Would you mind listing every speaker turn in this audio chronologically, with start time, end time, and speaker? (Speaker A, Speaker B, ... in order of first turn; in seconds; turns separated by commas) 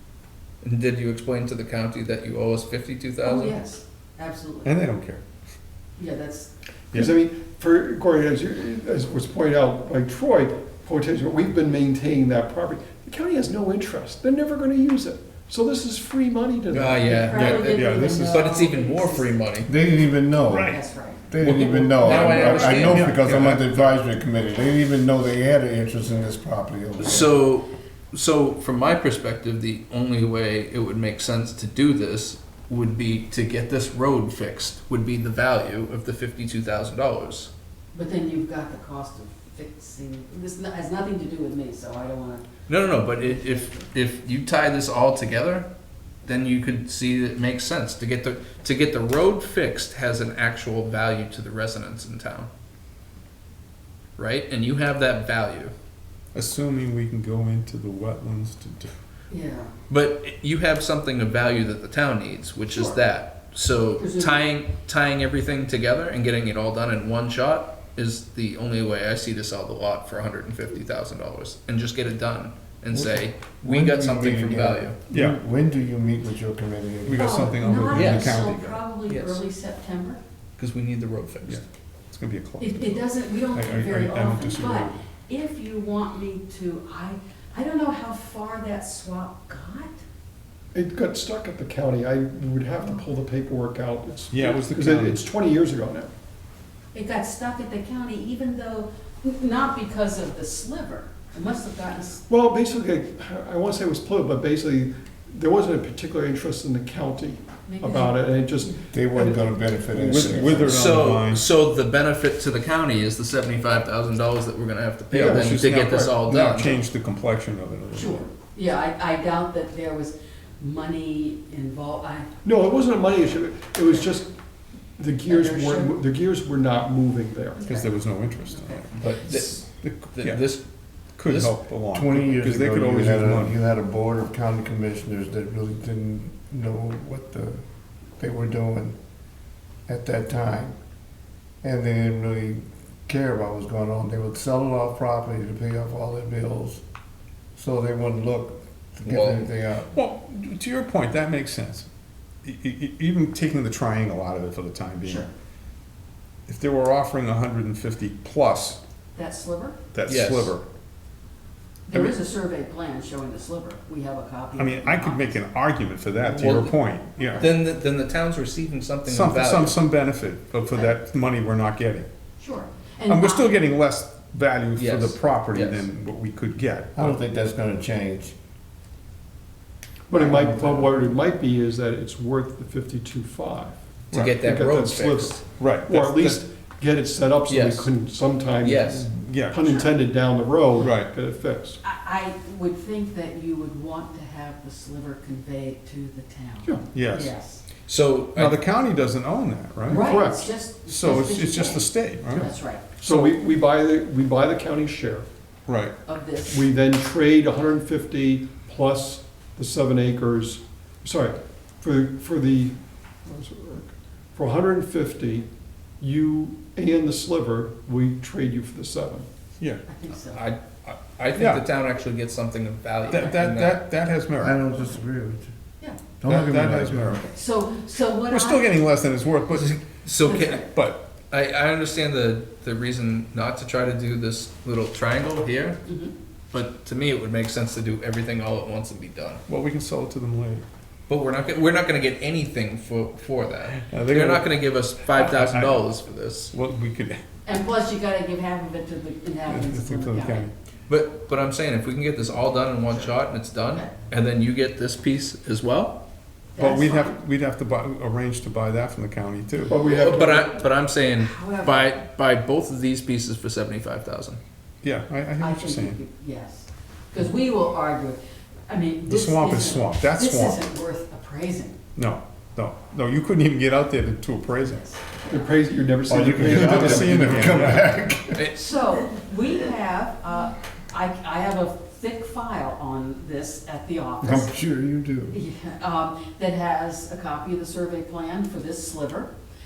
Speaker A: 0.6-3.6, Speaker B: 3.2-4.7, Speaker C: 4.6-5.2, Speaker B: 6.0-6.5, Speaker D: 6.9-17.4, Speaker A: 16.7-17.7, Speaker B: 17.2-19.4, Speaker C: 17.4-18.4, Speaker A: 18.2-19.7, Speaker E: 19.6-20.8, Speaker C: 20.5-20.8, Speaker B: 20.5-21.2, Speaker E: 21.3-27.4, Speaker A: 21.4-23.2, Speaker B: 22.0-22.9, Speaker C: 22.3-23.7, Speaker A: 27.0-37.5, Speaker B: 37.9-42.4, Speaker A: 42.7-45.6, Speaker A: 46.2-52.5, Speaker A: 54.2-55.7, Speaker C: 56.3-58.9, Speaker B: 59.3-59.7, Speaker A: 59.9-75.0, Speaker B: 62.7-63.0, Speaker B: 64.0-64.4, Speaker E: 72.9-77.5, Speaker C: 75.1-75.4, Speaker C: 77.1-78.8, Speaker B: 77.2-80.2, Speaker A: 77.9-78.4, Speaker A: 79.1-79.4, Speaker A: 80.6-81.6, Speaker C: 81.4-85.0, Speaker B: 82.6-89.9, Speaker D: 90.7-96.1, Speaker C: 94.3-95.2, Speaker B: 96.9-102.2, Speaker D: 102.3-109.5, Speaker B: 107.7-108.7, Speaker E: 108.9-110.9, Speaker C: 109.9-111.4, Speaker A: 110.5-116.8, Speaker C: 115.1-118.2, Speaker D: 115.1-116.1, Speaker B: 117.9-122.3, Speaker D: 122.4-124.3, Speaker D: 125.0-127.6, Speaker B: 125.2-126.0, Speaker B: 127.6-127.9, Speaker C: 127.6-130.4, Speaker B: 128.5-129.0, Speaker A: 129.0-130.6, Speaker C: 131.2-133.6, Speaker A: 131.2-131.5, Speaker E: 131.9-137.6, Speaker E: 138.2-138.9, Speaker E: 139.9-140.8, Speaker E: 141.6-146.8, Speaker E: 147.5-149.9, Speaker A: 149.1-149.5, Speaker C: 149.9-151.9, Speaker C: 152.4-155.3, Speaker C: 156.5-158.8, Speaker B: 159.1-159.8, Speaker C: 159.9-160.6, Speaker A: 160.1-160.5, Speaker B: 161.9-165.4, Speaker C: 164.6-167.4, Speaker A: 166.4-166.8, Speaker A: 167.3-169.8, Speaker C: 169.1-172.1, Speaker B: 172.4-173.6, Speaker C: 173.1-177.2, Speaker A: 174.8-175.9, Speaker E: 176.9-178.3, Speaker D: 180.1-191.8, Speaker E: 180.1-181.0, Speaker C: 184.1-184.4, Speaker A: 184.1-185.4, Speaker C: 185.4-186.4, Speaker A: 187.5-187.9, Speaker A: 188.6-189.0, Speaker C: 189.1-189.7, Speaker C: 190.8-191.1, Speaker B: 191.8-197.6, Speaker C: 196.9-197.3, Speaker A: 197.9-198.6, Speaker C: 198.3-200.2, Speaker B: 199.9-202.8, Speaker D: 199.9-200.5, Speaker C: 200.8-202.5, Speaker D: 203.0-205.3, Speaker C: 203.0-203.3, Speaker C: 205.7-205.9, Speaker B: 206.1-206.7, Speaker D: 206.5-215.5, Speaker D: 216.0-219.2, Speaker B: 219.9-220.4, Speaker A: 220.3-223.9, Speaker C: 221.3-221.6, Speaker C: 223.1-224.6, Speaker E: 224.4-225.5, Speaker E: 226.2-227.2, Speaker C: 226.2-227.3, Speaker B: 227.3-228.7, Speaker C: 228.3-229.8, Speaker A: 229.5-235.8, Speaker B: 230.2-230.7, Speaker C: 230.7-231.0, Speaker B: 235.8-236.1, Speaker A: 236.5-239.4, Speaker C: 239.5-240.6, Speaker A: 241.1-246.5, Speaker C: 243.8-244.5, Speaker C: 245.1-245.9, Speaker C: 246.5-247.2, Speaker B: 247.4-250.5, Speaker C: 249.5-250.5, Speaker A: 250.9-256.0, Speaker B: 256.5-257.2, Speaker C: 256.6-259.8, Speaker D: 259.6-260.6, Speaker B: 259.7-260.5, Speaker A: 259.8-264.4, Speaker B: 261.1-261.9, Speaker C: 264.8-266.0, Speaker B: 265.4-271.8, Speaker C: 269.1-270.6, Speaker C: 271.9-274.8, Speaker B: 274.6-275.4, Speaker D: 275.2-277.8, Speaker E: 276.1-278.5, Speaker C: 276.3-278.0, Speaker B: 278.5-284.5, Speaker E: 284.2-285.4, Speaker B: 285.3-289.3